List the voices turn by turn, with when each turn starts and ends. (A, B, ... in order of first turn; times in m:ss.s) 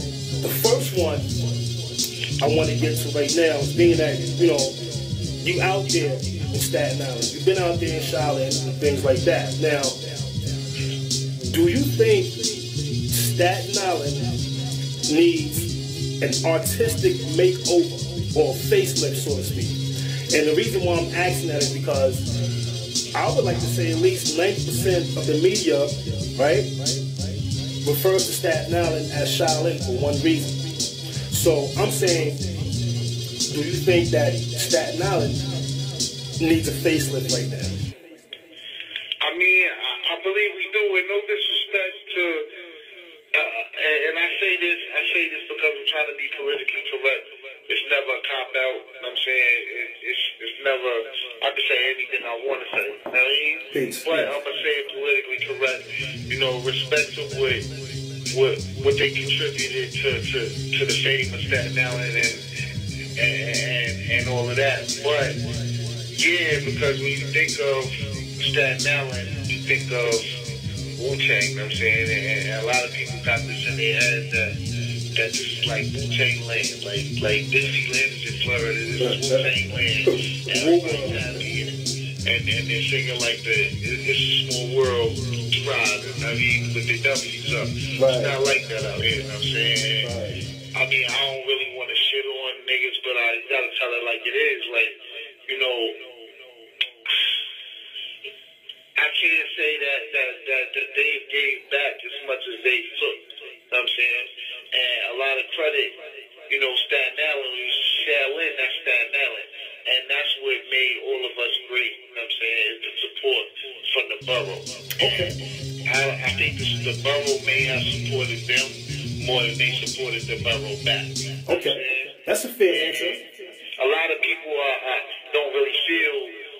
0:00.4-0:01.3 A
0:02.4-0:04.7 A
0:05.4-0:10.0 A
0:11.4-0:12.3 A
0:13.1-0:14.3 A
0:15.1-0:15.7 A
0:16.2-0:19.7 A
0:20.3-0:22.2 A
0:23.1-0:26.6 A
0:27.8-0:30.5 A
0:31.3-0:32.4 A
0:33.5-0:35.4 A
0:36.4-0:37.7 A
0:39.2-0:42.4 B
0:43.3-0:57.6 B
0:53.7-0:54.3 A
0:58.3-1:02.4 B
1:03.2-1:05.4 B
1:06.1-1:10.2 B
1:11.0-1:14.5 B
1:15.2-1:30.1 B
1:19.0-1:19.5 A
1:20.0-1:21.2 A
1:28.0-1:28.3 A
1:30.0-1:30.4 A
1:30.7-1:34.9 B
1:35.5-1:36.0 B
1:39.0-1:43.2 B
1:43.7-1:45.9 B
1:46.5-1:55.3 B
1:55.0-1:55.3 A
1:55.8-2:03.2 B
2:01.5-2:03.2 A
2:03.8-2:06.3 B